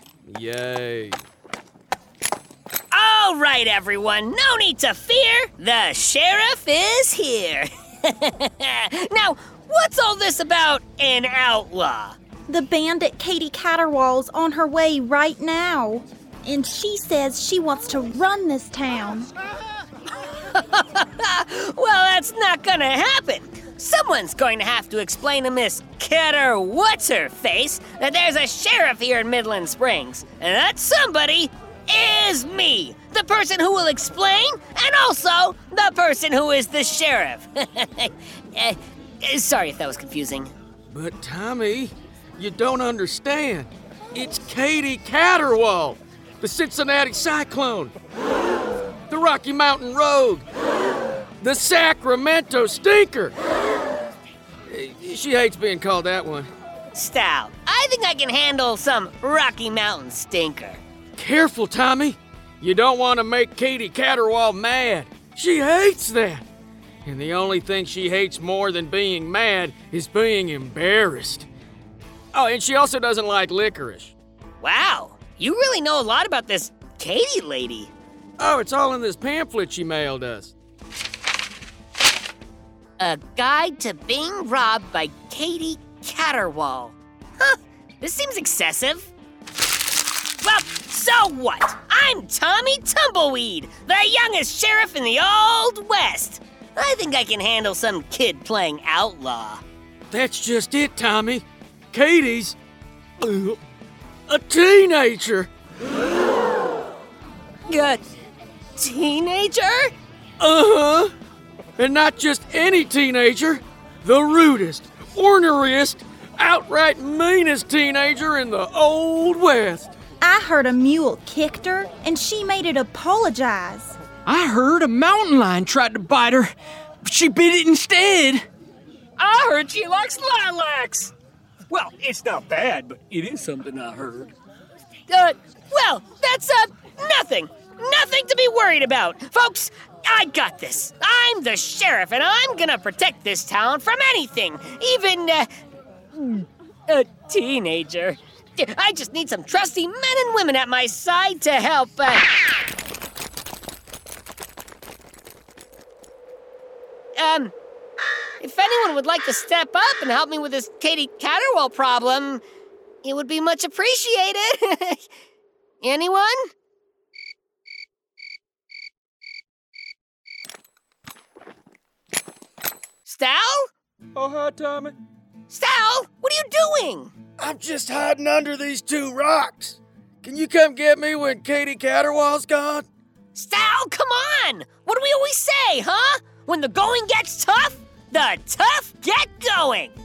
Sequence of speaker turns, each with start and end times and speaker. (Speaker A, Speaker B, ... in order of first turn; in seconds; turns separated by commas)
Speaker A: 0.3-1.2, Speaker B: 2.9-12.2, Speaker C: 12.5-19.3, Speaker B: 20.5-40.5, Speaker A: 40.9-47.9, Speaker A: 49.1-50.4, Speaker A: 51.4-53.3, Speaker A: 54.7-56.5, Speaker B: 56.9-60.8, Speaker A: 61.1-66.4, Speaker A: 67.0-71.5, Speaker A: 72.3-74.1, Speaker B: 74.6-77.9, Speaker A: 78.4-80.5, Speaker B: 83.0-89.1, Speaker B: 90.4-99.6, Speaker A: 100.1-102.5, Speaker A: 103.2-103.6, Speaker A: 104.3-105.5, Speaker B: 107.7-108.0, Speaker B: 108.8-109.9, Speaker A: 110.4-111.1, Speaker A: 111.8-119.9, Speaker C: 120.2-124.0, Speaker D: 124.2-126.5, Speaker D: 127.0-128.4, Speaker B: 129.2-131.1, Speaker E: 131.7-134.3, Speaker B: 135.1-145.5, Speaker B: 146.1-152.3, Speaker B: 157.2-157.5, Speaker B: 158.4-162.4, Speaker B: 163.0-165.0, Speaker B: 165.8-166.4, Speaker B: 173.0-173.7, Speaker A: 174.1-174.9, Speaker B: 175.5-177.1, Speaker A: 177.4-182.8, Speaker B: 183.3-189.9